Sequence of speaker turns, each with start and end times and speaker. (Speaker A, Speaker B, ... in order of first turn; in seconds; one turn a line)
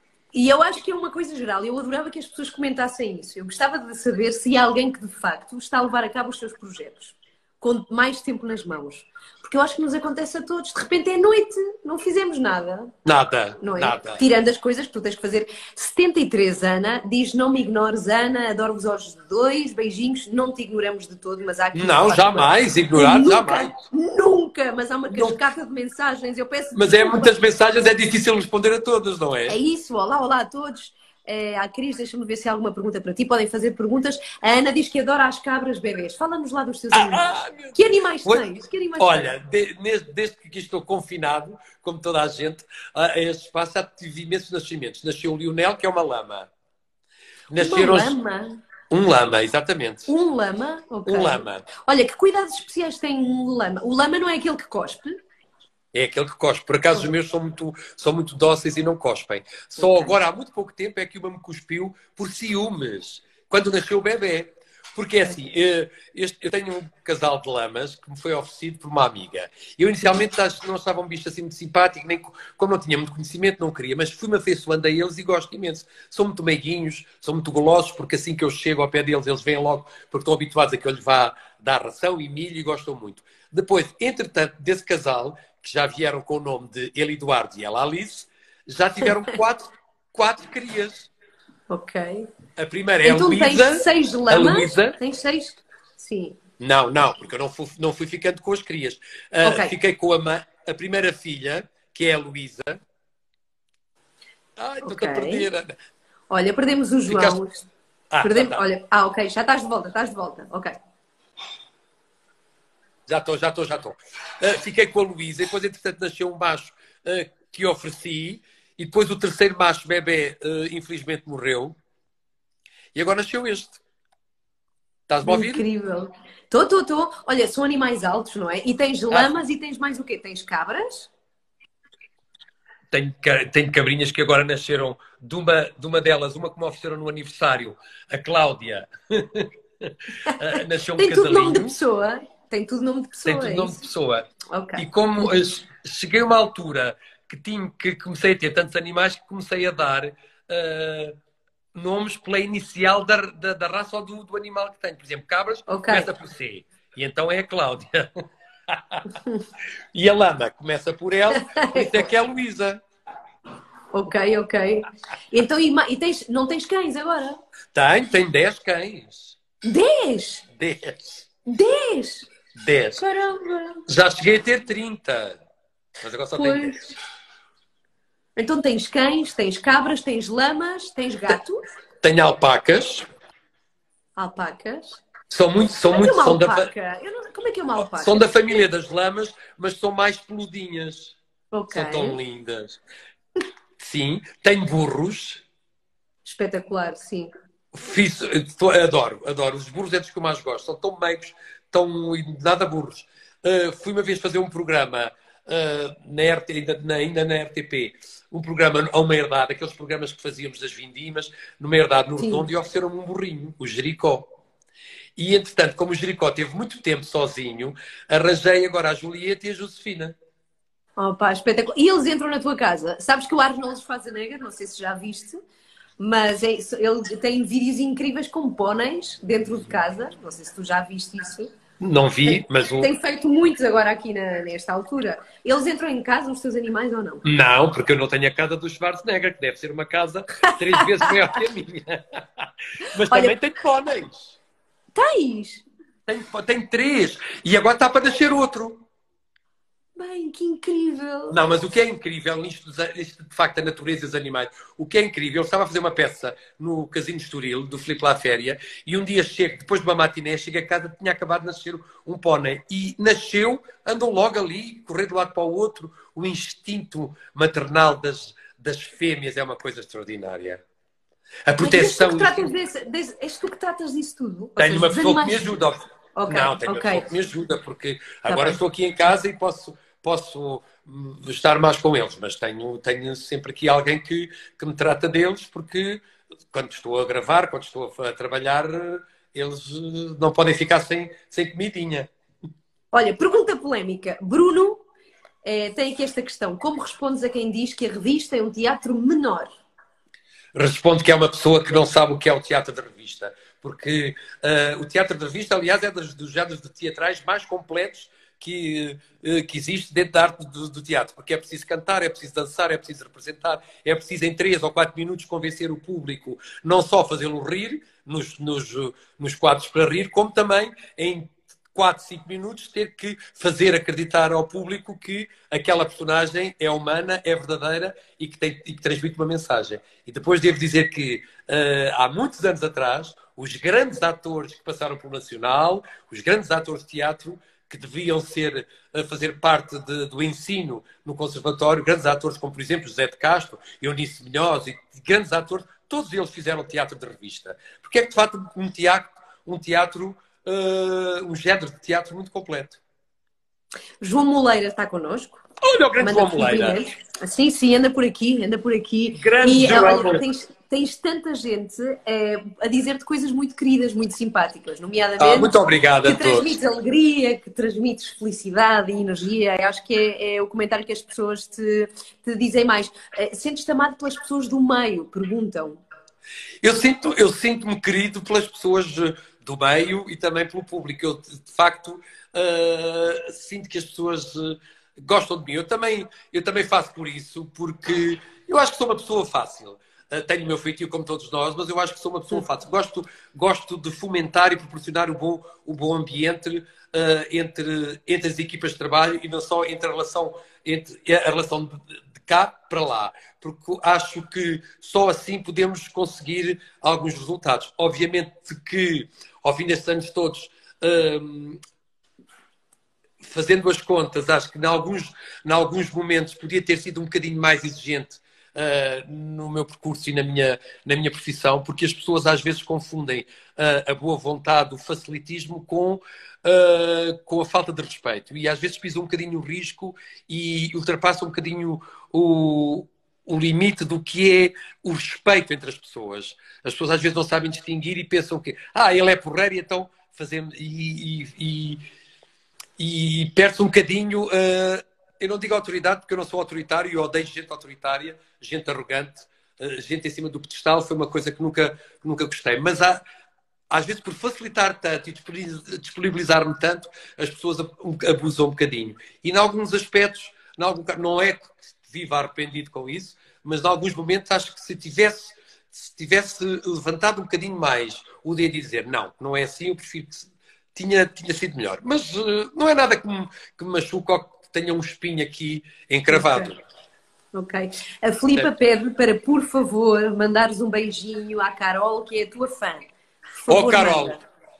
Speaker A: 0.3-12.9
Speaker B: 13.0-14.2
Speaker A: 13.6-27.3
Speaker B: 21.7-23.8
Speaker B: 25.1-25.4
Speaker B: 26.7-29.6
Speaker A: 29.5-39.3
Speaker B: 36.9-38.5
Speaker B: 39.0-46.5
Speaker B: 47.5-48.1
Speaker A: 47.5-48.6
Speaker B: 48.9-50.1
Speaker A: 50.1-55.2
Speaker B: 51.0-51.7
Speaker B: 55.9-91.1
Speaker A: 59.8-60.1
Speaker A: 91.7-92.3
Speaker B: 92.6-95.0
Speaker A: 93.0-96.3
Speaker B: 96.6-102.8
Speaker A: 99.4-99.7
Speaker B: 104.6-105.7
Speaker A: 104.8-105.5
Speaker A: 106.3-107.7
Speaker B: 107.1-107.4
Speaker B: 108.1-108.6
Speaker A: 108.2-110.7
Speaker B: 113.1-121.8
Speaker B: 122.9-123.8
Speaker B: 125.1-125.6
Speaker A: 125.2-131.1
Speaker B: 132.9-141.8
Speaker A: 140.2-143.8
Speaker B: 143.2-151.1
Speaker A: 144.5-144.8
Speaker B: 151.7-158.1
Speaker A: 155.7-156.1
Speaker B: 158.7-159.1
Speaker A: 159.1-159.4
Speaker B: 159.9-162.8
Speaker A: 161.3-162.1
Speaker A: 163.9-167.4
Speaker B: 167.7-169.4
Speaker A: 169.6-170.4
Speaker B: 170.5-171.3
Speaker A: 171.4-172.3
Speaker B: 172.5-173.0
Speaker A: 173.0-173.8
Speaker B: 173.9-175.4
Speaker B: 176.0-176.9
Speaker A: 176.3-176.9
Speaker A: 178.3-181.6
Speaker B: 182.0-183.1
Speaker A: 184.2-185.0
Speaker B: 185.3-186.7
Speaker A: 185.9-188.3
Speaker B: 187.8-191.2
Speaker A: 191.5-192.2
Speaker B: 191.7-192.8
Speaker B: 193.8-195.4
Speaker A: 196.2-197.3
Speaker B: 197.7-214.3
Speaker A: 212.2-212.4
Speaker B: 215.2-220.1
Speaker A: 221.0-225.4
Speaker A: 226.0-231.5
Speaker B: 231.8-232.9
Speaker A: 232.3-237.2
Speaker B: 237.2-244.4
Speaker A: 240.4-241.4
Speaker A: 242.8-243.3
Speaker A: 244.9-245.6
Speaker B: 246.1-248.8
Speaker A: 249.9-251.4
Speaker B: 251.3-270.6
Speaker B: 271.4-272.5
Speaker A: 271.6-275.6
Speaker B: 274.6-292.1
Speaker A: 276.1-277.1
Speaker A: 278.3-278.6
Speaker A: 292.9-294.8
Speaker A: 295.4-299.5
Speaker B: 300.5-352.8
Speaker A: 354.0-355.4
Speaker B: 355.6-356.8
Speaker A: 356.0-375.8
Speaker B: 359.1-360.2
Speaker B: 365.2-366.5
Speaker B: 376.6-411.6
Speaker B: 413.2-441.8
Speaker B: 442.8-453.0
Speaker B: 453.7-476.6
Speaker A: 476.1-476.5
Speaker A: 477.3-484.2
Speaker B: 483.5-484.2